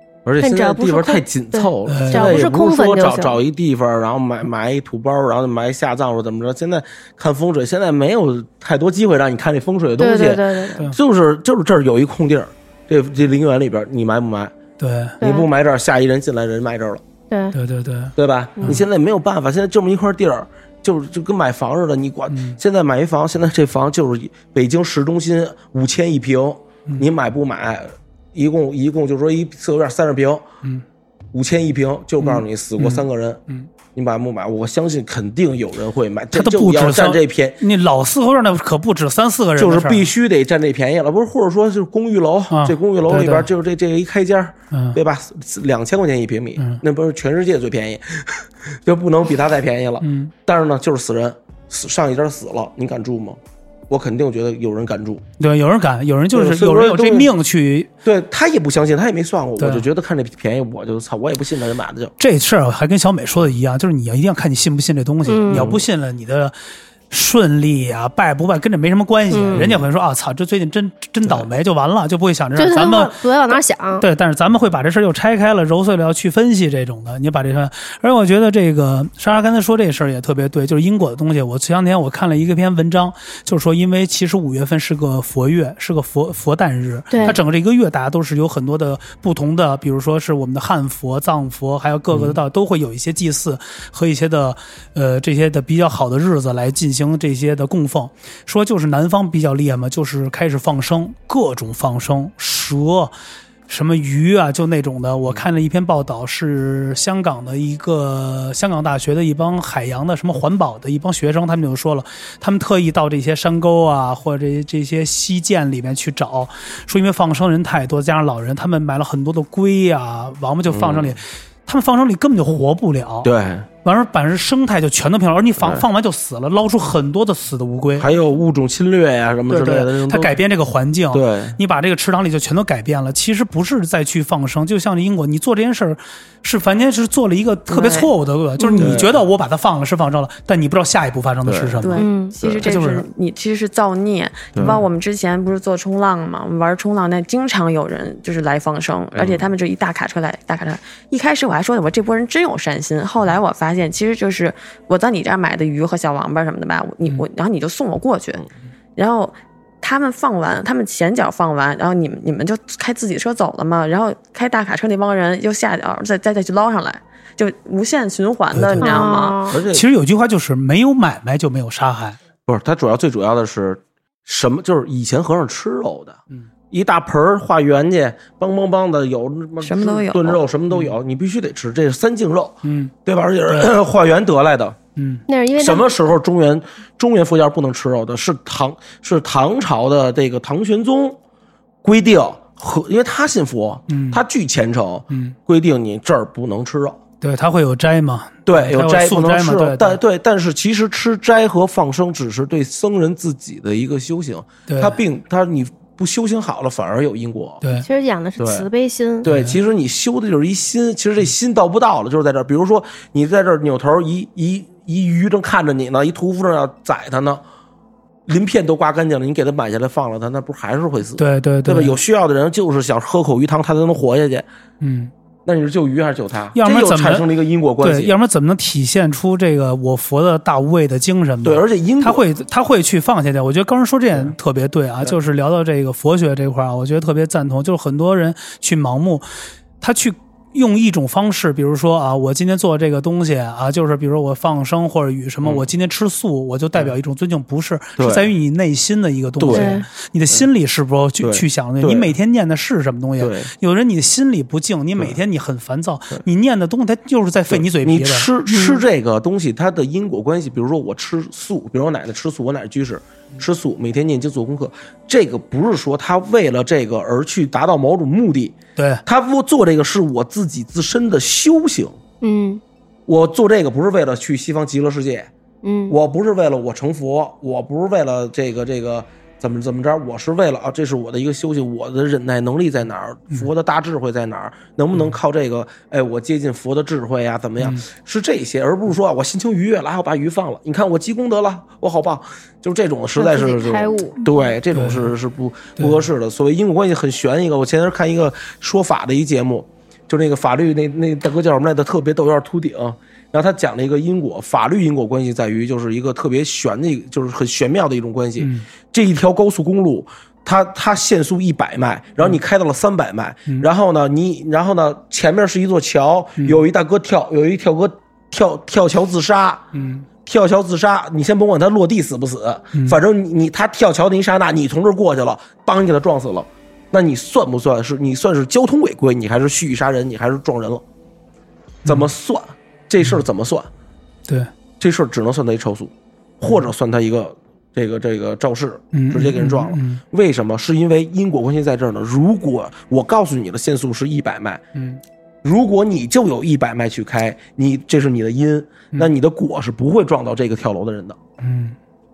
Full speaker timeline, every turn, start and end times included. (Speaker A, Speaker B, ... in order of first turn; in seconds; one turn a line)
Speaker A: 0.3-14.6
Speaker B: 0.4-3.4
Speaker C: 1.9-2.5
Speaker B: 10.0-10.8
Speaker C: 14.8-15.2
Speaker B: 15.2-15.5
Speaker A: 15.2-17.0
Speaker B: 17.3-17.6
Speaker C: 17.5-18.8
Speaker A: 18.2-30.5
Speaker C: 22.3-22.6
Speaker A: 31.3-33.4
Speaker C: 32.2-33.7
Speaker A: 34.0-37.6
Speaker C: 36.3-40.1
Speaker A: 39.6-55.2
Speaker C: 42.5-43.5
Speaker C: 44.7-45.0
Speaker C: 46.6-46.8
Speaker C: 50.0-50.3
Speaker C: 55.4-57.9
Speaker A: 56.3-57.3
Speaker A: 58.0-62.1
Speaker C: 59.6-59.9
Speaker C: 62.2-66.5
Speaker B: 65.3-65.7
Speaker A: 65.5-65.8
Speaker C: 67.1-73.2
Speaker B: 69.3-69.7
Speaker A: 69.5-69.8
Speaker A: 71.2-71.5
Speaker B: 72.6-74.0
Speaker C: 74.0-103.2
Speaker B: 87.1-87.4
Speaker A: 92.1-92.4
Speaker C: 103.7-123.3
Speaker A: 120.7-121.2
Speaker A: 123.2-123.7
Speaker C: 123.8-128.1
Speaker A: 125.6-125.8
Speaker A: 128.0-130.4
Speaker C: 129.5-142.1
Speaker A: 131.1-131.6
Speaker D: 137.7-138.1
Speaker B: 138.6-138.9
Speaker A: 138.8-139.2
Speaker A: 141.4-141.8
Speaker D: 141.8-169.4
Speaker B: 142.0-142.3
Speaker A: 142.4-142.7
Speaker C: 142.6-143.1
Speaker A: 149.2-149.5
Speaker C: 168.5-169.0
Speaker B: 168.8-169.6
Speaker A: 169.5-169.9
Speaker C: 169.7-172.2
Speaker A: 172.5-176.2
Speaker A: 176.7-184.8
Speaker D: 179.6-180.4
Speaker C: 182.6-182.9
Speaker C: 185.0-185.2
Speaker B: 185.3-185.9
Speaker A: 185.6-191.2
Speaker A: 191.8-197.0
Speaker C: 193.9-194.2
Speaker C: 195.1-195.4
Speaker C: 197.2-200.0
Speaker A: 198.5-207.6
Speaker C: 204.7-205.0
Speaker B: 207.8-209.3
Speaker A: 208.4-208.7
Speaker A: 209.2-217.4
Speaker C: 209.3-209.6
Speaker A: 218.3-224.5
Speaker C: 221.2-222.0
Speaker C: 224.8-225.1
Speaker A: 225.4-228.2
Speaker C: 226.6-227.3
Speaker C: 227.8-239.3
Speaker A: 231.4-232.2
Speaker C: 239.8-258.3
Speaker A: 245.4-245.7
Speaker A: 248.0-248.3
Speaker A: 249.4-249.8
Speaker B: 249.5-249.8
Speaker A: 251.2-252.1
Speaker A: 253.2-253.5
Speaker A: 257.5-272.0
Speaker B: 258.5-258.8
Speaker C: 268.8-269.0
Speaker B: 272.2-272.6
Speaker A: 273.1-275.3
Speaker B: 275.6-276.0
Speaker A: 275.9-319.6
Speaker C: 287.6-287.9
Speaker B: 293.2-294.2
Speaker C: 294.7-295.1
Speaker C: 295.8-296.1
Speaker C: 308.4-308.7
Speaker C: 319.7-320.1
Speaker A: 320.2-330.8
Speaker C: 322.7-323.0
Speaker A: 331.9-333.7
Speaker A: 334.8-344.6
Speaker C: 338.9-340.0
Speaker C: 344.8-345.0
Speaker A: 345.4-351.2
Speaker C: 351.4-351.8